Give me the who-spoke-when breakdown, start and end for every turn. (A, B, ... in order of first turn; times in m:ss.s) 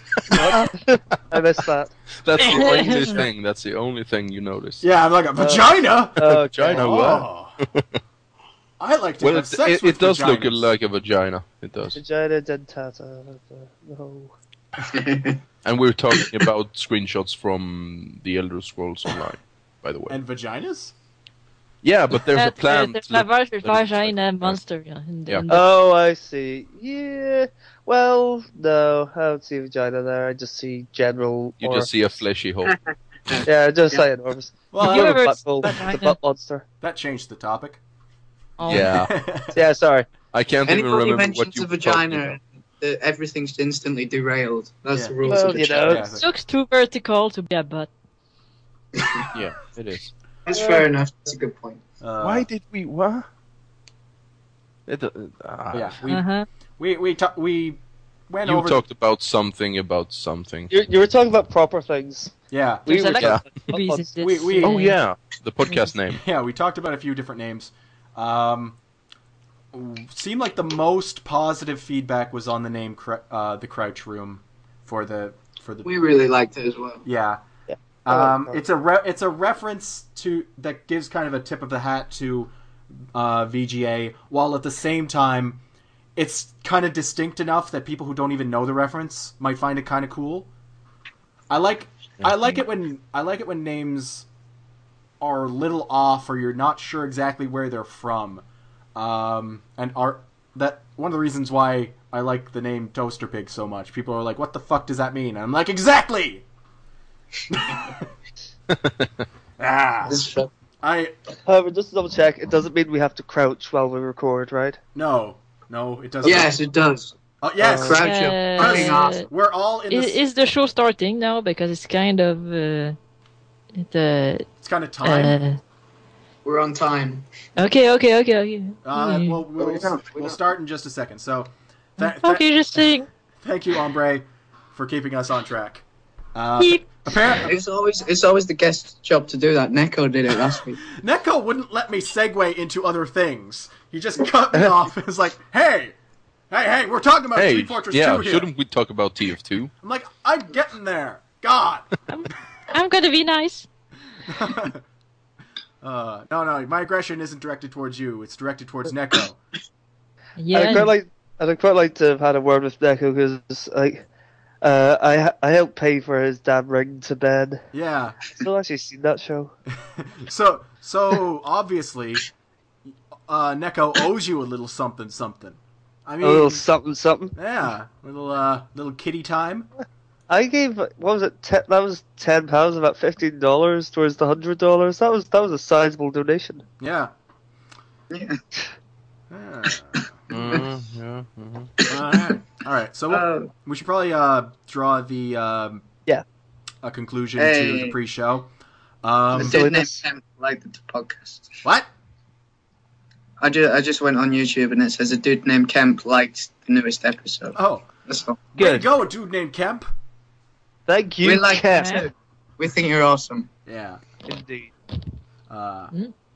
0:00.3-0:01.9 A
0:02.2-0:04.8 B
0:02.4-0:03.2 C
0:04.8-0:07.6 D
0:05.4-0:07.2 A
0:06.3-0:08.0 B
0:08.8-0:10.7 D
0:09.2-0:12.0 B
0:11.9-0:14.3 A
0:14.9-0:15.4 E
0:15.6-0:20.2 B
0:20.1-0:20.9 D
0:21.8-0:24.6 B
0:22.3-0:25.7 C
0:25.5-0:31.9 A
0:31.6-0:32.8 B
0:32.7-0:33.4 E
0:33.4-0:36.6 A
0:34.7-0:35.3 D
0:34.7-0:36.2 C
0:36.8-0:37.8 D
0:38.6-0:38.9 C
0:38.7-0:39.1 B
0:38.7-0:39.6 D
0:39.5-0:40.1 A
0:40.3-0:42.4 B
0:40.7-0:46.0 E
0:44.9-0:46.3 D
0:45.2-0:46.2 A
0:46.1-0:47.9 C
0:49.0-0:49.3 E
0:49.3-0:50.1 B
0:50.4-0:51.8 E
0:50.5-0:50.9 A
0:52.0-0:52.5 D
0:52.2-0:53.3 B
0:54.9-0:56.0 B
0:55.7-0:56.2 D
0:56.1-0:56.5 C
0:56.8-0:58.8 D
0:58.4-1:00.7 B
1:00.7-1:02.3 A
1:02.5-1:03.2 D
1:02.9-1:04.2 A
1:02.9-1:05.0 C
1:03.2-1:03.4 B
1:04.2-1:05.0 D
1:04.6-1:06.2 B
1:06.1-1:08.8 D
1:09.7-1:16.0 D
1:15.8-1:17.0 E
1:17.0-1:17.4 D
1:17.7-1:18.6 A
1:18.0-1:22.5 D
1:23.1-1:25.6 D
1:26.2-1:30.5 D
1:31.5-1:34.3 D
1:32.2-1:32.6 B
1:35.2-1:38.4 D
1:38.9-1:46.4 D
1:47.5-1:47.9 D
1:48.7-1:49.2 B
1:49.6-1:50.2 D
1:50.1-1:50.5 E
1:50.8-1:51.1 D
1:51.4-1:54.8 A
1:54.9-1:56.6 D
1:56.2-1:57.1 E
1:57.4-2:00.2 D
1:57.6-1:58.0 A
1:57.8-1:59.2 E
1:58.0-1:59.3 C
1:59.9-2:03.0 C
2:03.8-2:04.5 C
2:04.6-2:05.4 D
2:05.0-2:05.6 C
2:06.4-2:07.2 E
2:07.6-2:09.4 C
2:08.8-2:12.9 D
2:09.6-2:10.4 E
2:12.0-2:13.1 C
2:13.4-2:15.8 D
2:16.3-2:17.5 D
2:16.6-2:17.4 C
2:17.4-2:20.8 E
2:20.8-2:26.0 D
2:26.5-2:28.5 D
2:27.3-2:29.7 B
2:29.8-2:31.9 D
2:32.1-2:33.6 C
2:34.3-2:34.8 D
2:35.8-2:39.4 D
2:40.4-2:40.9 C
2:40.5-2:44.0 A
2:44.6-2:47.6 A
2:47.7-2:48.2 D
2:48.4-2:49.5 A
2:49.9-2:52.3 D
2:53.3-2:56.6 D
2:56.2-2:57.3 A
2:57.3-2:59.7 D
3:00.3-3:06.6 A
3:06.8-3:07.1 D
3:08.1-3:08.4 E
3:09.3-3:10.1 D
3:10.3-3:11.7 B
3:10.3-3:10.6 E
3:11.9-3:15.9 D
3:13.1-3:13.5 E
3:16.8-3:18.5 D
3:17.4-3:18.0 E
3:19.0-3:19.6 D
3:19.3-3:21.6 E
3:19.4-3:20.0 A
3:21.6-3:21.9 D
3:23.4-3:28.5 E
3:27.5-3:27.9 D
3:28.5-3:29.9 D
3:28.6-3:28.9 A
3:30.9-3:32.0 A
3:31.2-3:33.5 E
3:33.6-3:34.0 D
3:34.2-3:34.7 A
3:35.5-3:35.9 D